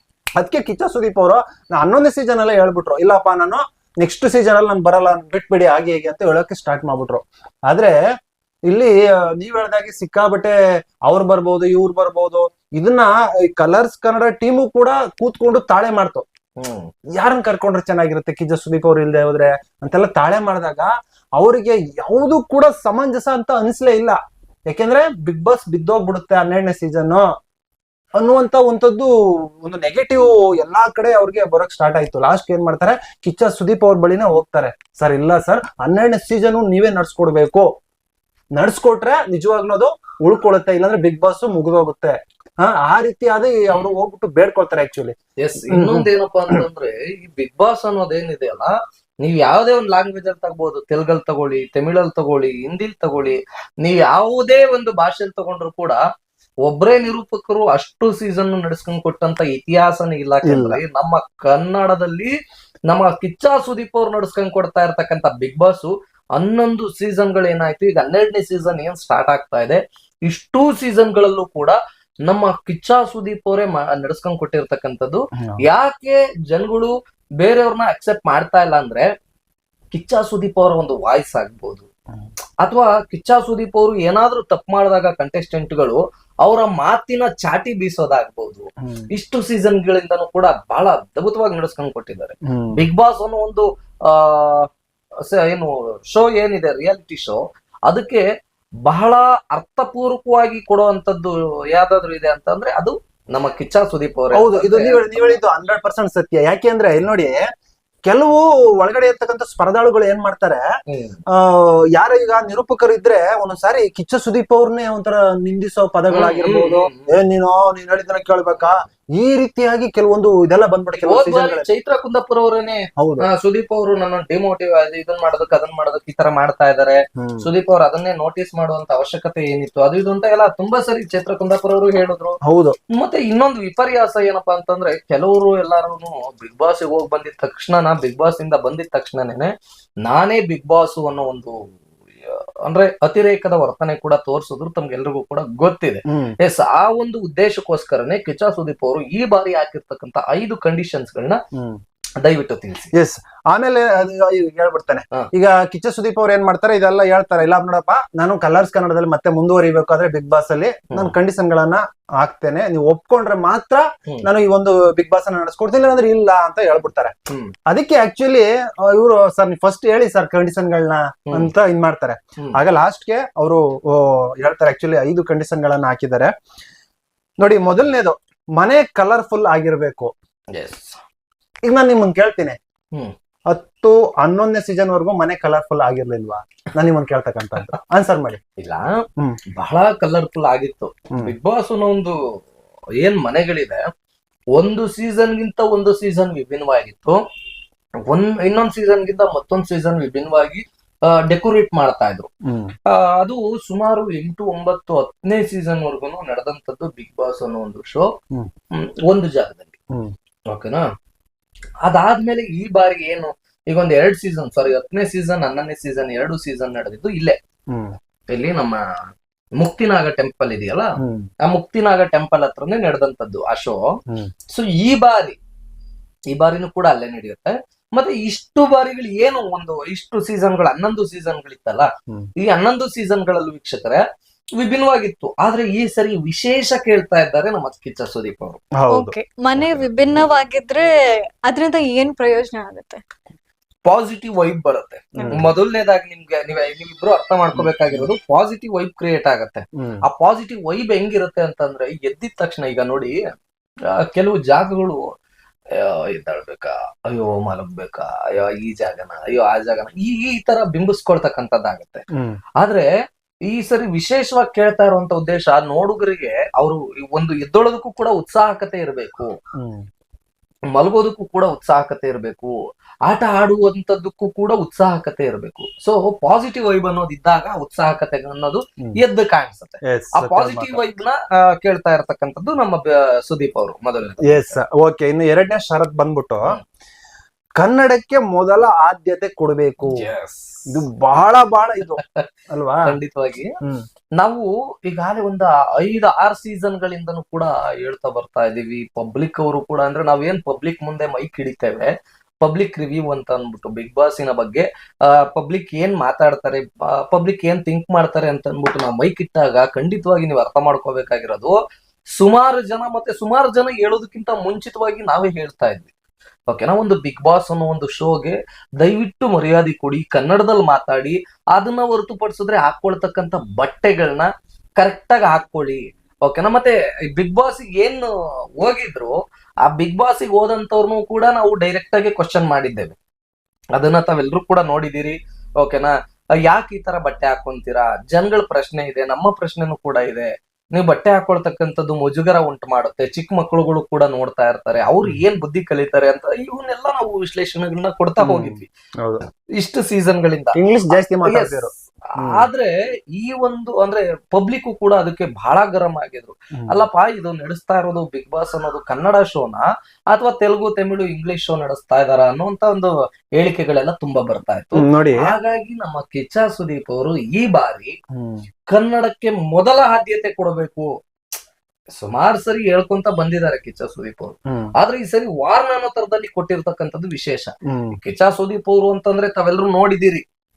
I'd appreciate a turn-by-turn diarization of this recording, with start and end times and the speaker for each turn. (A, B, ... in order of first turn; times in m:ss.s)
0:00.4-0:08.0 A
0:08.7-0:16.2 A
0:16.6-0:16.9 B
0:17.2-0:27.3 A
0:28.2-0:37.7 A
0:38.5-0:45.2 A
0:45.4-0:56.0 B
0:45.7-0:46.6 A
0:56.6-1:02.3 B
1:00.4-1:00.8 A
1:02.9-1:19.1 B
1:19.9-1:21.9 B
1:22.6-1:34.7 B
1:28.8-1:29.1 A
1:32.4-1:32.8 A
1:35.2-1:38.2 B
1:38.8-1:45.4 B
1:44.3-1:47.4 A
1:48.0-1:50.6 A
1:50.9-1:51.2 B
1:51.3-2:01.7 A
1:56.1-1:57.1 B
2:01.0-2:12.4 B
2:03.0-2:03.3 A
2:07.2-2:07.5 A
2:12.4-2:12.8 A
2:12.9-2:19.5 B
2:20.0-2:21.6 B
2:22.3-2:31.4 B
2:26.1-2:26.4 A
2:31.5-2:31.8 A
2:32.2-2:32.9 B
2:32.9-2:47.1 A
2:40.9-2:41.1 B
2:47.7-2:56.3 A
2:57.4-3:00.1 A
3:00.5-3:01.0 B
3:01.6-3:02.6 A
3:03.5-3:08.4 A
3:08.6-3:09.0 B
3:09.6-3:12.2 B
3:13.0-3:13.8 B
3:14.6-3:17.2 B
3:18.1-3:22.3 B
3:22.4-3:22.8 A
3:22.9-3:28.1 B
3:28.7-3:29.7 B
3:30.5-3:30.8 B
3:31.8-3:37.4 B
3:37.7-3:38.0 A
3:38.3-3:38.8 B
3:39.6-3:43.8 B
3:41.0-3:41.3 A
3:44.5-3:45.4 B
3:46.3-3:54.0 B
3:54.6-3:58.6 B
3:58.8-3:59.2 A
3:58.9-4:00.9 C
3:59.6-4:00.2 B
4:01.4-4:03.0 C
4:03.8-4:13.2 B
4:05.2-4:05.5 A
4:07.5-4:08.1 A
4:09.8-4:10.0 A
4:13.9-4:15.0 B
4:15.8-4:22.0 B
4:22.1-4:22.4 A
4:22.6-4:22.9 B
4:23.5-4:29.3 B
4:29.6-4:29.8 A
4:30.7-4:32.5 B
4:33.1-4:44.6 B
4:39.8-4:40.9 A
4:44.2-4:46.6 A
4:47.6-4:50.0 A
4:49.8-4:50.8 B
4:50.7-4:52.9 A
4:52.8-4:53.5 B
4:54.2-5:11.6 B
5:12.2-5:15.9 B
5:16.5-5:28.1 B
5:28.6-5:33.0 B
5:33.7-5:48.7 B
5:48.2-5:49.2 A
5:49.6-6:07.9 B
5:50.5-5:52.4 A
6:04.7-6:05.3 A
6:08.1-6:08.4 A
6:08.7-6:10.9 B
6:11.9-6:20.2 B
6:14.5-6:14.7 A
6:17.6-6:18.0 A